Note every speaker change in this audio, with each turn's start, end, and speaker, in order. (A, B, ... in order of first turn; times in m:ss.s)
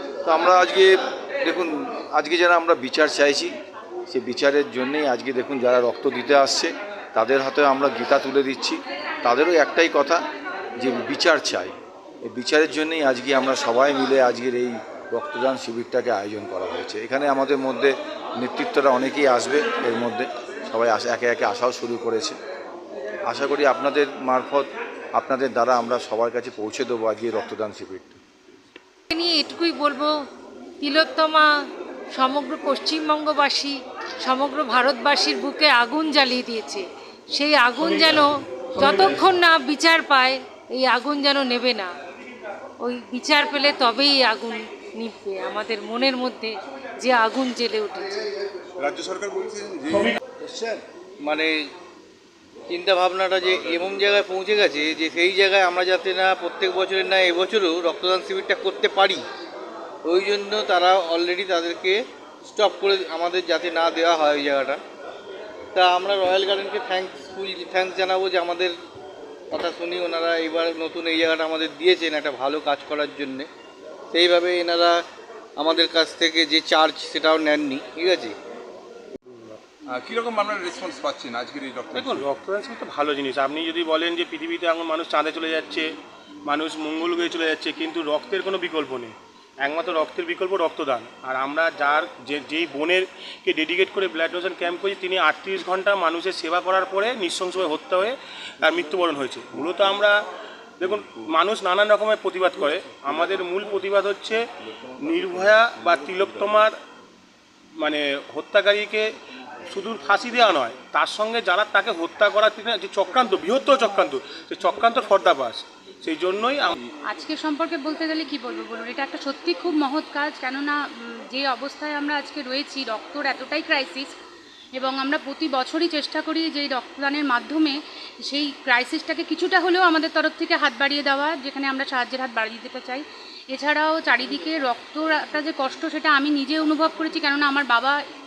0:00.2-0:03.5 A
0:04.1-0:10.2 A
0:10.8-0:22.4 A
0:23.3-0:28.2 A
0:29.1-0:30.1 B
0:30.8-0:31.5 B
0:32.1-0:41.9 B
0:42.8-0:48.2 B
0:48.8-0:50.8 C
0:51.2-0:51.7 D
0:52.7-0:59.2 D
1:00.0-1:04.8 D
1:05.7-1:08.7 D
1:09.5-1:13.5 D
1:14.1-1:15.0 D
1:15.6-1:18.3 D
1:19.9-1:22.3 C
1:21.9-1:25.9 E
1:26.4-1:40.2 E
1:40.8-1:44.4 E
1:45.0-1:46.8 E
1:47.8-1:49.1 E
1:49.7-1:56.7 E
1:57.1-2:04.1 F
2:04.7-2:18.0 F